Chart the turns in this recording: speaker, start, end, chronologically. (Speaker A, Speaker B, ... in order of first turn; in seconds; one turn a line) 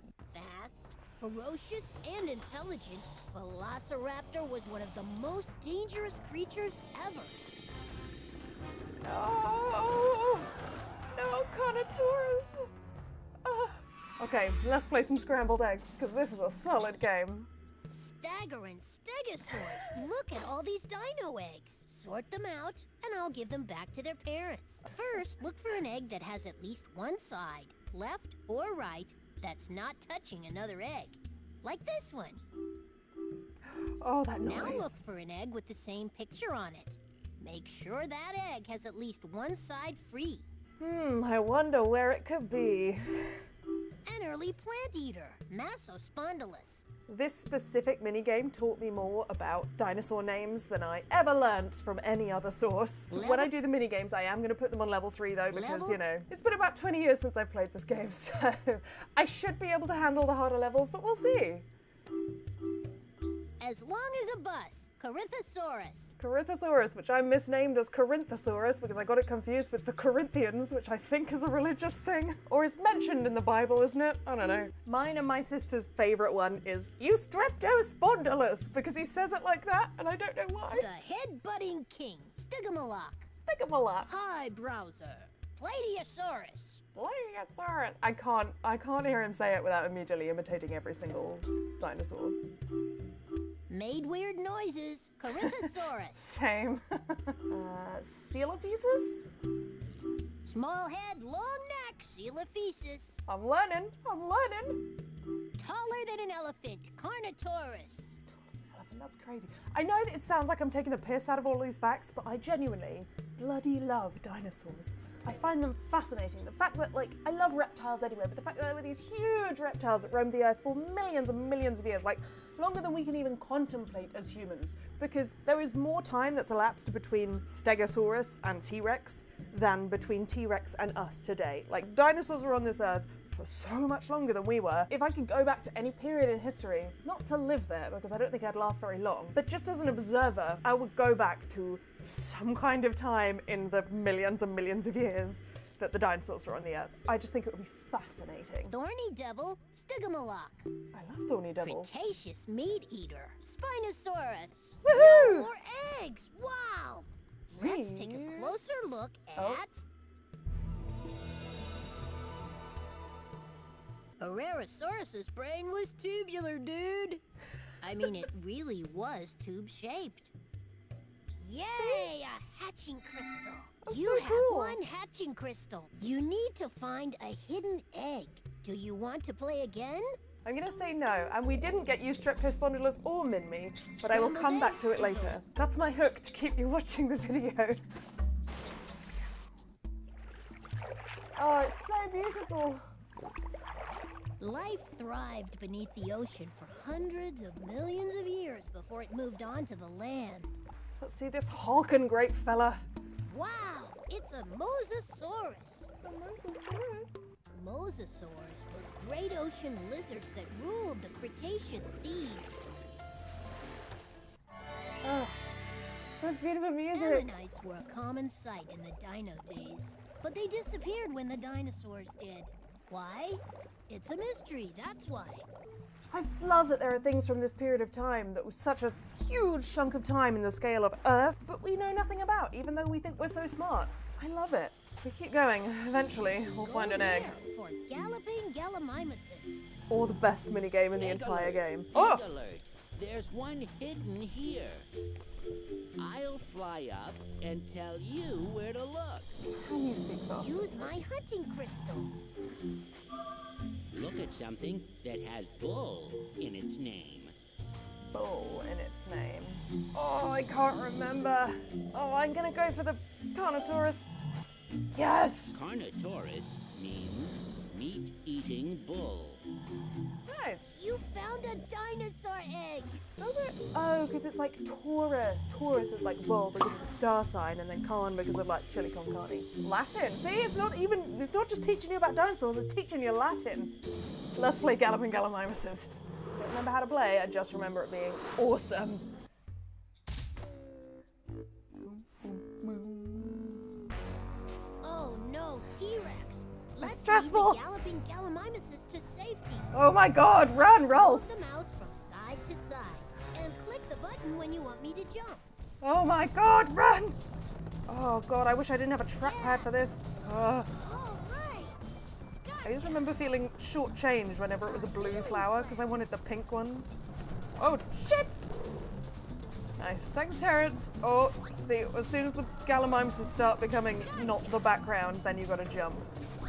Speaker A: 0.3-7.3
Speaker B: 9.0-10.5
Speaker B: 11.1-12.7
Speaker B: 13.4-17.5
Speaker A: 17.9-32.4
Speaker B: 19.6-19.9
Speaker B: 33.6-34.9
Speaker A: 34.4-40.5
Speaker B: 40.8-43.4
Speaker A: 44.0-46.9
Speaker B: 47.1-61.6
Speaker A: 53.1-53.5
Speaker A: 55.5-56.0
Speaker A: 63.6-66.2
Speaker B: 66.2-80.9
Speaker A: 80.7-83.3
Speaker B: 83.3-84.1
Speaker A: 84.0-86.8
Speaker B: 86.9-92.4
Speaker A: 93.7-96.2
Speaker B: 95.3-99.3
Speaker A: 100.4-103.2
Speaker B: 103.3-104.8
Speaker A: 105.6-108.2
Speaker B: 108.3-148.7
Speaker A: 148.7-150.7
Speaker B: 150.9-151.9
Speaker A: 151.6-159.8
Speaker B: 154.8-155.5
Speaker B: 157.5-158.8
Speaker B: 159.3-159.6
Speaker A: 164.2-167.2
Speaker A: 167.8-170.3
Speaker A: 171.4-180.1
Speaker B: 171.7-172.1
Speaker B: 173.8-174.8
Speaker B: 180.4-187.8
Speaker A: 184.0-185.4
Speaker B: 191.3-192.8
Speaker A: 194.4-200.5
Speaker B: 201.0-202.8
Speaker A: 203.3-205.9
Speaker B: 206.0-207.2
Speaker A: 207.5-212.6
Speaker B: 215.0-215.4
Speaker B: 216.2-217.3
Speaker A: 216.9-225.5
Speaker B: 226.1-237.4
Speaker A: 236.6-239.7
Speaker B: 239.9-242.2
Speaker C: 240.9-244.9
Speaker C: 246.0-249.4
Speaker B: 249.6-251.2
Speaker A: 250.4-252.1
Speaker C: 253.9-257.3
Speaker B: 258.1-264.1
Speaker B: 264.9-265.5
Speaker C: 265.5-269.4
Speaker B: 270.2-270.7
Speaker A: 270.7-273.0
Speaker B: 273.2-283.7
Speaker B: 284.4-289.1
Speaker B: 291.8-293.6
Speaker A: 294.8-299.7
Speaker B: 296.8-297.6
Speaker B: 299.7-301.3
Speaker A: 300.9-305.4
Speaker B: 302.9-303.2
Speaker B: 305.8-307.2
Speaker B: 307.9-310.7
Speaker A: 309.2-309.7
Speaker A: 310.8-313.0
Speaker B: 312.6-317.0
Speaker A: 314.6-315.9
Speaker B: 317.6-318.3
Speaker B: 319.8-326.1
Speaker A: 324.0-324.6